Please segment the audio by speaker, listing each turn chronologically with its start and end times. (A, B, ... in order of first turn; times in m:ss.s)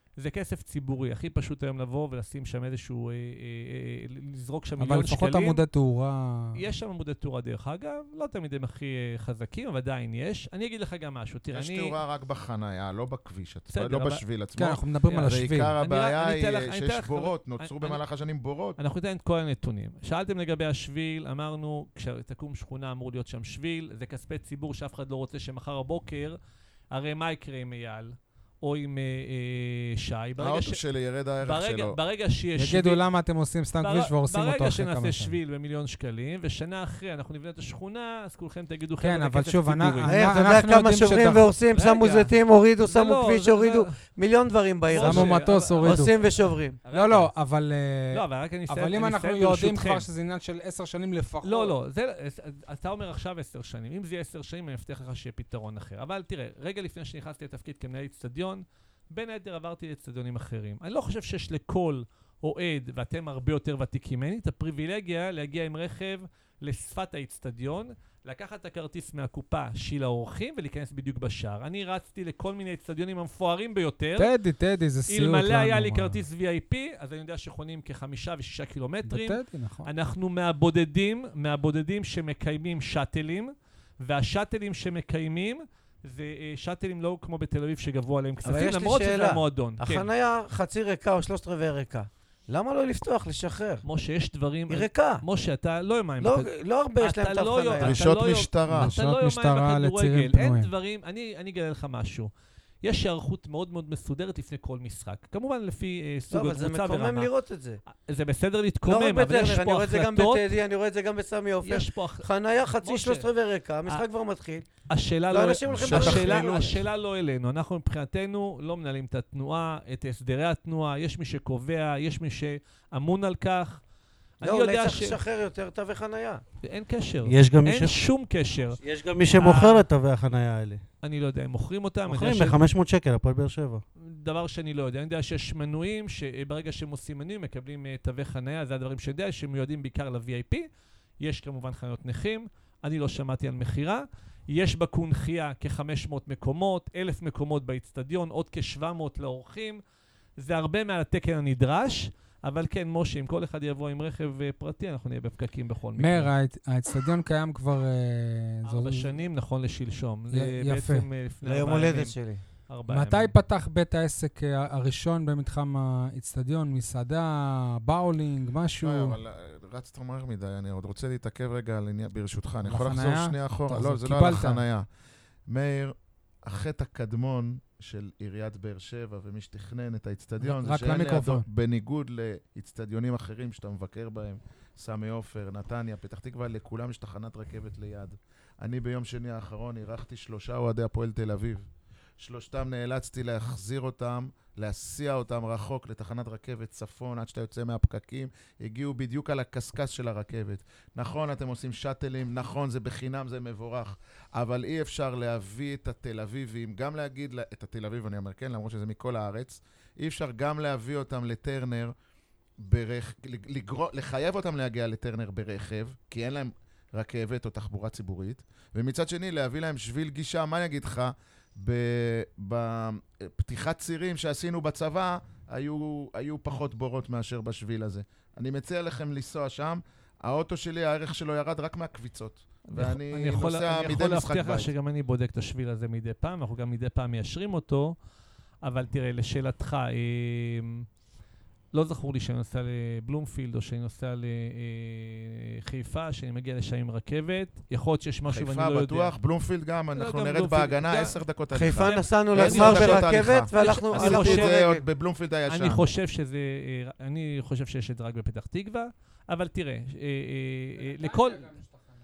0:00.2-0:05.6 A
0:04.8-0:06.6 B
0:06.6-0:12.0 A
0:11.5-0:18.8 C
0:13.7-0:14.2 A
0:14.6-0:15.7 B
0:15.1-0:18.0 A
0:18.8-0:26.4 A
0:26.9-0:30.8 A
0:30.4-0:32.0 C
0:31.4-0:33.0 A
0:32.6-0:35.4 B
0:33.8-0:40.4 A
0:39.0-0:41.5 B
0:40.1-0:46.8 D
0:41.7-0:42.3 A
0:42.9-0:43.9 A
0:44.9-0:47.3 A
0:45.0-0:46.1 B
0:46.9-0:51.7 B
0:48.1-0:50.1 A
0:51.4-1:14.3 A
1:14.2-1:16.2 B
1:15.1-1:30.1 A
1:19.1-1:19.9 B
1:28.4-1:33.8 D
1:33.8-1:42.3 A
1:34.7-1:35.2 D
1:36.2-1:38.0 D
1:37.8-1:38.9 C
1:38.7-1:40.7 B
1:42.8-1:47.3 A
1:46.3-1:47.8 D
1:47.9-1:50.4 A
1:48.8-1:54.7 D
1:51.6-1:52.3 A
1:52.8-1:53.3 A
1:54.9-2:03.8 A
1:55.3-1:56.8 D
1:55.7-1:56.7 C
2:04.4-2:05.2 A
2:04.4-2:06.4 D
2:06.6-2:08.8 A
2:07.2-2:08.0 E
2:08.8-2:10.8 E
2:09.3-2:09.9 A
2:11.0-2:12.6 A
2:12.1-2:13.8 E
2:14.0-2:20.7 A
2:21.2-2:29.8 A
2:30.4-2:36.3 A
2:36.0-2:39.1 B
2:38.6-2:42.1 A
2:40.3-2:41.1 B
2:41.4-2:42.4 D
2:42.7-2:43.3 A
2:42.9-2:49.2 B
2:48.8-2:54.8 C
2:52.7-2:54.6 B
2:55.5-3:11.7 C
3:00.4-3:01.5 B
3:12.2-3:31.9 C
3:32.6-3:54.7 C
3:52.7-3:58.0 A
3:58.6-4:00.9 A
4:01.7-4:09.1 A
4:08.3-4:15.8 C
4:10.0-4:11.2 A
4:11.5-4:14.8 D
4:11.7-4:14.6 A
4:15.5-4:21.5 A
4:20.8-4:21.9 B